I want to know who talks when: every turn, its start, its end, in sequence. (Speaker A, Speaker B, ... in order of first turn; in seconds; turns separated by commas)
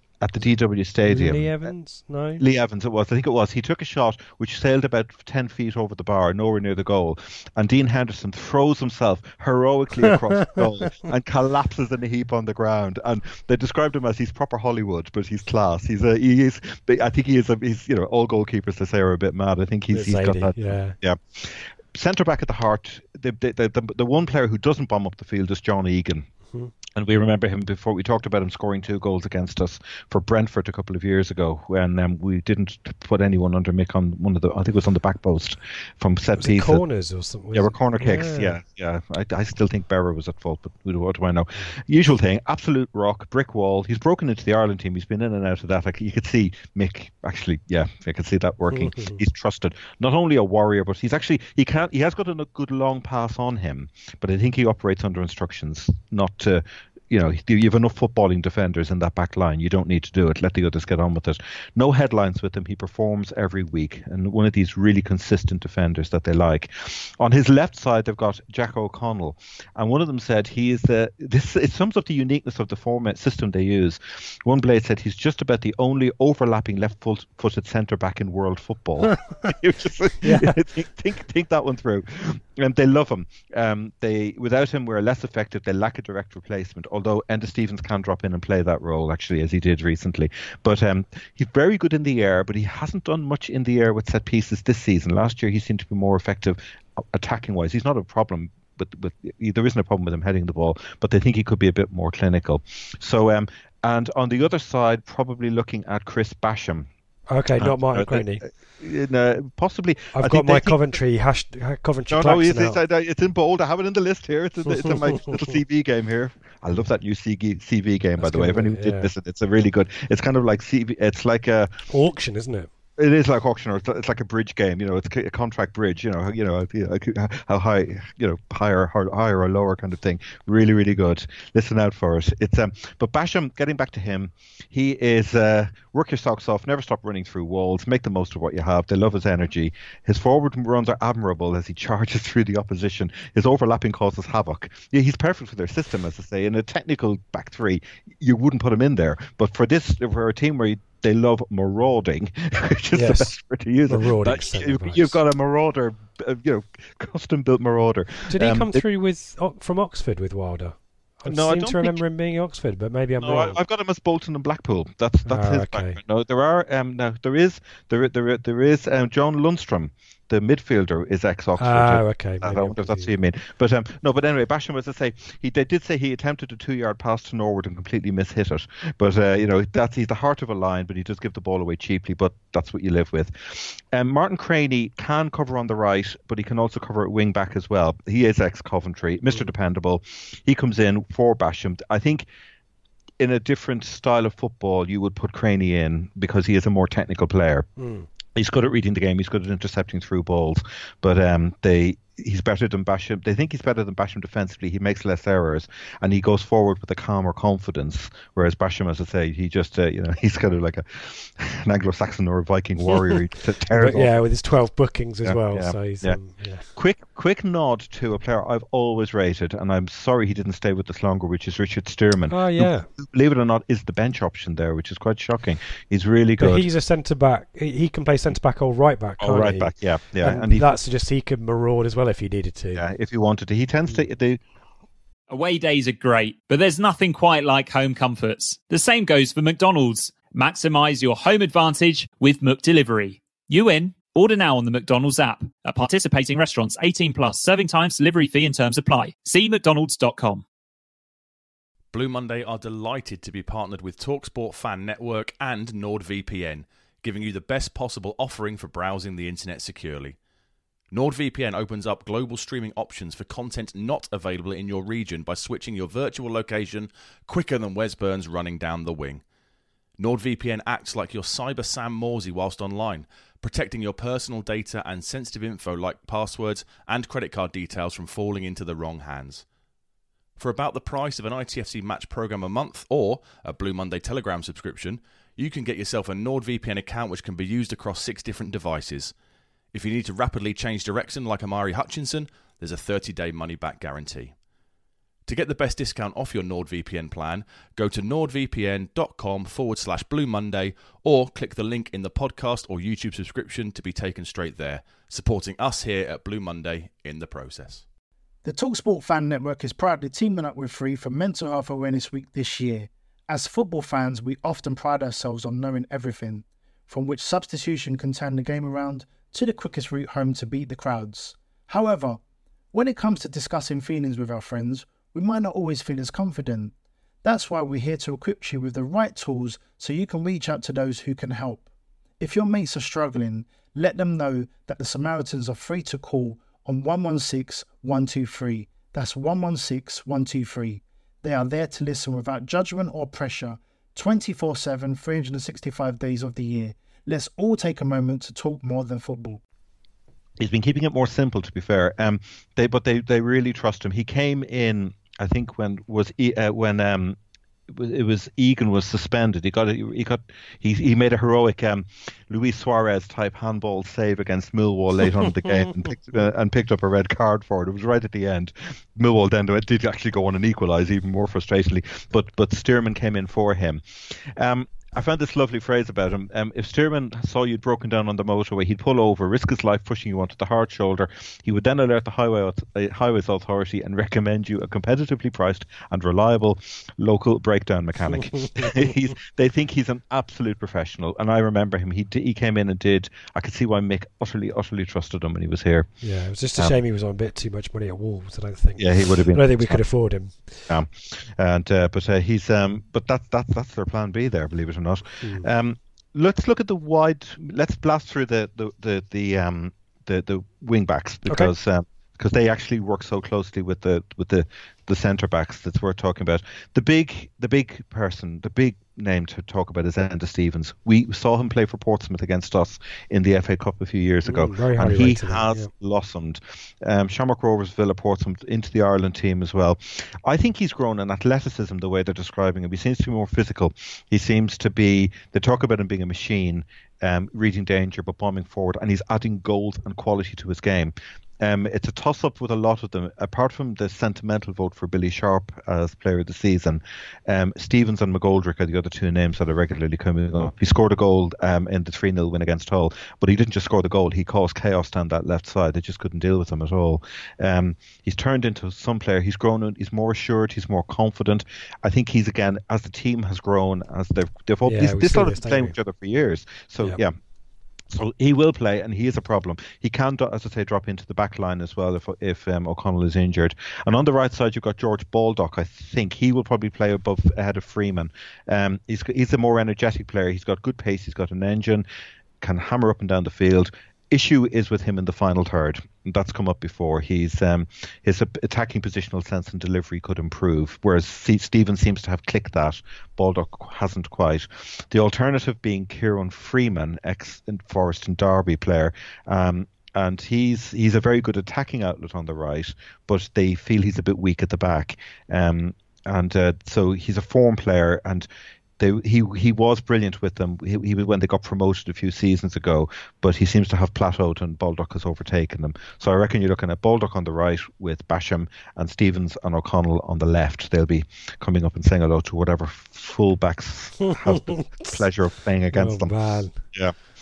Speaker A: 0.2-1.5, Speaker B: 1.1-2.4, Speaker A: 2.4-26.3, Speaker B: 19.9-20.9, Speaker A: 26.9-36.8, Speaker B: 36.4-38.5, Speaker A: 37.5-106.9, Speaker B: 48.7-49.2, Speaker B: 79.1-79.5, Speaker B: 80.2-80.6, Speaker B: 107.3-108.4, Speaker A: 107.6-110.9, Speaker B: 110.1-112.8, Speaker A: 112.1-121.7, Speaker B: 114.7-115.4, Speaker B: 118.2-119.1, Speaker B: 121.9-122.7, Speaker A: 123.0-158.8, Speaker B: 152.9-153.3, Speaker B: 153.9-155.2, Speaker B: 158.3-163.6, Speaker A: 161.3-162.0, Speaker A: 163.2-192.3, Speaker B: 165.2-166.0, Speaker B: 171.6-173.1, Speaker A: 193.2-197.7, Speaker B: 197.8-198.1, Speaker A: 198.3-214.2, Speaker B: 213.7-216.7, Speaker A: 215.2-226.7, Speaker B: 222.3-222.9, Speaker B: 226.4-232.8, Speaker A: 229.2-230.7, Speaker A: 232.7-234.4, Speaker C: 235.3-250.4, Speaker D: 251.9-260.2, Speaker D: 260.9-269.2, Speaker D: 270.0-279.4, Speaker D: 280.4-289.1, Speaker D: 289.7-294.3, Speaker D: 295.2-307.8, Speaker E: 308.4-322.2, Speaker E: 322.7-326.7, Speaker E: 327.2-331.6, Speaker E: 332.2-349.4, Speaker A: 350.4-357.2, Speaker A: 357.7-395.9, Speaker B: 388.3-388.7, Speaker B: 396.0-400.7, Speaker A: 398.8-399.8, Speaker A: 400.7-467.1, Speaker B: 405.2-405.5, Speaker B: 411.2-411.5, Speaker B: 424.2-425.7, Speaker B: 464.6-465.7, Speaker A: 467.9-481.9, Speaker A: 482.4-508.3, Speaker A: 508.8-527.0, Speaker B: 524.0-525.0, Speaker B: 525.7-526.6